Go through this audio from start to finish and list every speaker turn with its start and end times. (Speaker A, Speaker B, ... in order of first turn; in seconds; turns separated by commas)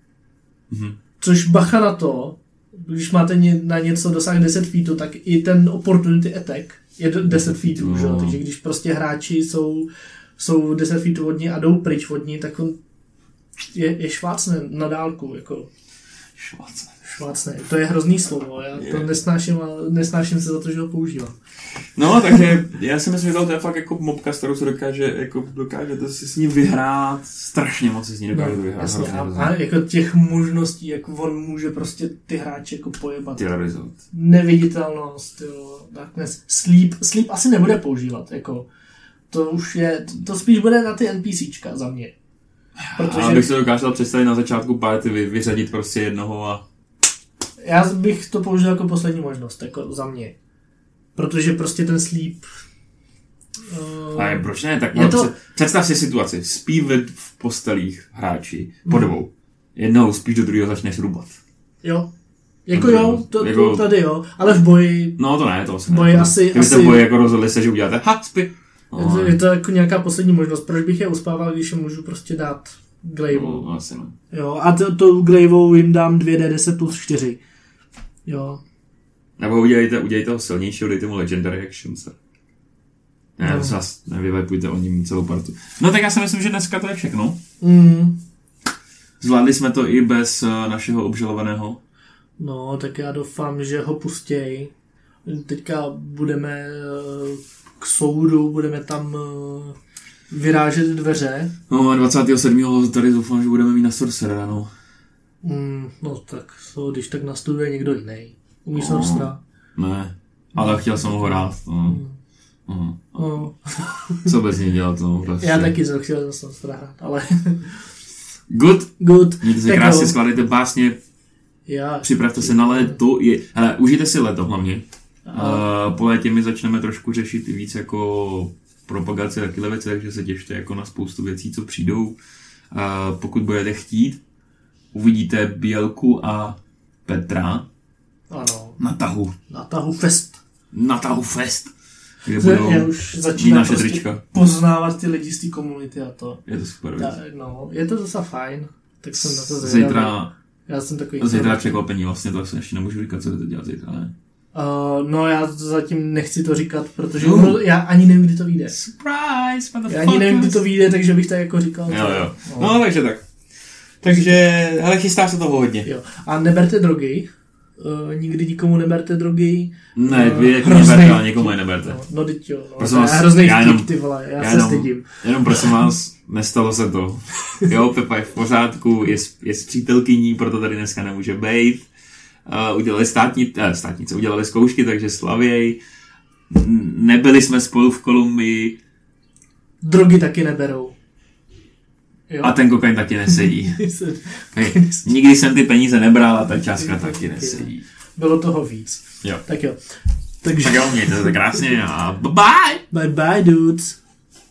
Speaker A: 0.7-1.0, Speaker B: 1.2-12.8, Speaker A: 7.3-8.4, Speaker B: 13.6-15.7, Speaker A: 16.4-17.2, Speaker B: 17.1-21.4, Speaker A: 18.8-19.1, Speaker A: 21.9-29.5, Speaker B: 28.3-33.5, Speaker A: 33.4-34.0, Speaker B: 34.1-38.7, Speaker B: 39.3-42.1, Speaker A: 42.8-46.6, Speaker B: 43.0-43.5, Speaker B: 47.6-50.3, Speaker B: 51.1-52.5, Speaker B: 53.6-55.3, Speaker A: 54.1-61.4, Speaker B: 61.8-62.1, Speaker B: 62.6-65.2, Speaker A: 62.7-63.9, Speaker A: 65.2-69.4, Speaker B: 65.9-67.0, Speaker B: 69.0-73.7, Speaker A: 73.3-74.1, Speaker B: 74.3-77.4, Speaker B: 78.3-78.6, Speaker A: 79.4-82.2, Speaker A: 83.4-87.4, Speaker B: 83.4-83.8, Speaker B: 87.6-88.2, Speaker A: 89.2-91.8, Speaker B: 92.4-94.7, Speaker B: 95.2-99.8, Speaker B: 100.3-101.5, Speaker A: 101.7-104.7, Speaker B: 105.4-109.4, Speaker A: 108.7-112.0, Speaker B: 110.5-112.2, Speaker A: 112.7-113.5, Speaker B: 113.2-114.3, Speaker A: 114.2-115.7, Speaker B: 115.4-117.9, Speaker A: 118.5-121.0, Speaker B: 119.0-120.1, Speaker B: 121.7-123.0, Speaker A: 122.0-132.2, Speaker B: 125.3-125.7, Speaker A: 132.7-134.2, Speaker A: 134.9-137.7, Speaker B: 138.3-138.8, Speaker A: 138.8-139.3, Speaker B: 139.5-140.4, Speaker A: 140.7-141.7, Speaker A: 142.2-144.2, Speaker B: 142.4-146.4, Speaker A: 146.4-147.2, Speaker B: 147.0-150.2, Speaker A: 149.2-150.3, Speaker B: 150.7-151.8, Speaker A: 151.2-154.1, Speaker B: 154.5-158.7, Speaker A: 157.2-157.6, Speaker A: 158.7-160.6, Speaker B: 159.9-162.8, Speaker A: 161.9-163.2, Speaker A: 164.0-165.9, Speaker B: 165.8-175.8, Speaker A: 169.9-172.0, Speaker A: 172.8-181.9, Speaker A: 182.4-185.8, Speaker A: 186.5-188.8, Speaker B: 189.8-190.9, Speaker B: 192.3-192.6, Speaker A: 192.4-193.8, Speaker B: 193.3-195.1, Speaker A: 194.5-197.8, Speaker B: 196.8-201.6, Speaker A: 200.5-202.8, Speaker B: 202.9-204.0